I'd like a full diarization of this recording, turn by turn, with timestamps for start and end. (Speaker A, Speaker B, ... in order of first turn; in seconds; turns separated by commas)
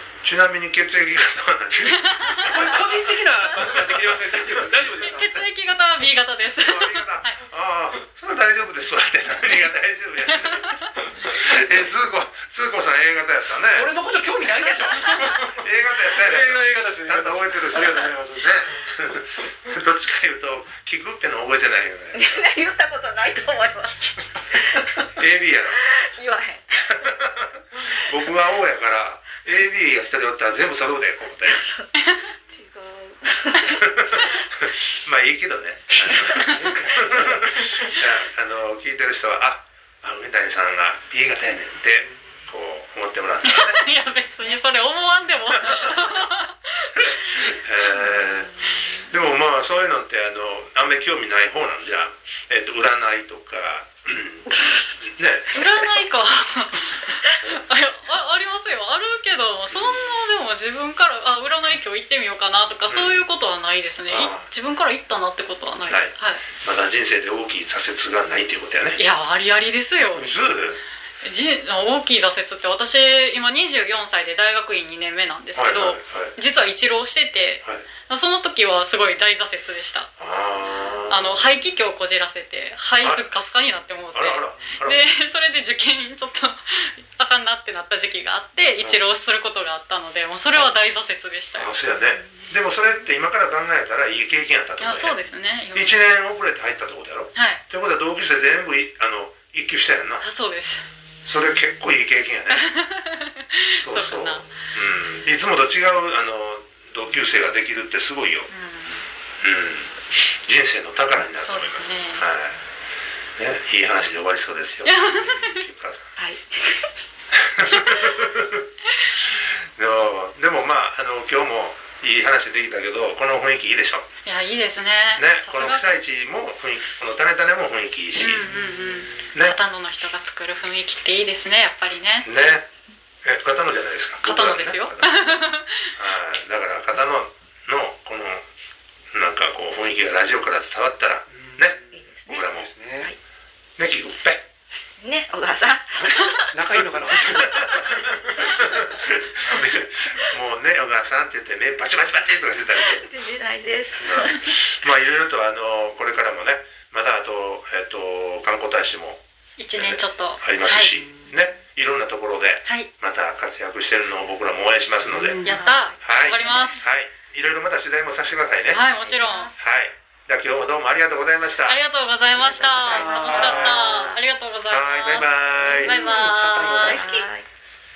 Speaker A: 0.2-3.0, Speaker B: 1.9-2.7, Speaker C: 2.4-5.4, Speaker A: 3.7-4.5, Speaker B: 5.0-7.4, Speaker A: 6.6-13.9, Speaker B: 10.3-10.8, Speaker C: 13.7-18.6, Speaker A: 15.2-22.4, Speaker D: 22.1-25.0, Speaker A: 25.1-25.8, Speaker D: 25.8-26.9, Speaker A: 26.9-31.6, Speaker D: 31.6-31.9, Speaker B: 32.0-32.3, Speaker D: 32.5-34.4, Speaker A: 33.7-43.8, Speaker C: 35.9-37.8, Speaker B: 43.4-47.5, Speaker A: 47.4-56.0, Speaker B: 55.5-66.4, Speaker A: 59.7-60.0, Speaker A: 62.9-63.3, Speaker A: 64.1-64.5, Speaker A: 65.8-69.0, Speaker B: 69.0-70.4, Speaker A: 70.1-70.8, Speaker B: 71.2-80.1, Speaker A: 75.5-76.3, Speaker A: 80.2-81.5, Speaker B: 81.1-91.8, Speaker A: 83.0-83.3, Speaker A: 84.1-85.0, Speaker A: 91.5-95.2, Speaker B: 94.8-96.0, Speaker A: 95.7-100.2, Speaker B: 97.3-97.6, Speaker B: 100.2-100.8, Speaker A: 101.2-102.7, Speaker B: 102.5-104.5, Speaker A: 103.8-108.5, Speaker B: 108.5-109.1, Speaker A: 109.4-112.6, Speaker B: 111.4-112.3, Speaker A: 113.4-116.1, Speaker B: 114.8-115.6, Speaker D: 116.2-116.9, Speaker A: 117.3-118.6, Speaker A: 119.8-124.0, Speaker B: 124.2-126.0, Speaker A: 125.2-129.6, Speaker B: 128.2-132.3, Speaker A: 132.2-132.7, Speaker A: 133.2-135.4, Speaker B: 134.2-135.9, Speaker A: 135.9-138.4, Speaker A: 139.1-142.7, Speaker C: 141.3-143.1, Speaker D: 141.9-143.2, Speaker A: 143.8-144.4, Speaker D: 145.0-146.5, Speaker C: 146.5-148.2, Speaker A: 147.3-153.1, Speaker D: 152.8-154.5, Speaker A: 154.0-159.2, Speaker B: 159.6-160.9, Speaker A: 159.7-165.4, Speaker B: 162.6-162.9, Speaker C: 165.1-165.6, Speaker B: 165.4-166.9, Speaker D: 165.4-166.8, Speaker A: 166.0-168.8, Speaker B: 168.7-169.5, Speaker D: 169.0-169.6, Speaker A: 169.6-171.8, Speaker B: 171.7-177.1, Speaker D: 172.4-174.2, Speaker C: 172.9-173.5, Speaker A: 173.2-173.8, Speaker A: 174.7-176.0, Speaker D: 175.7-177.5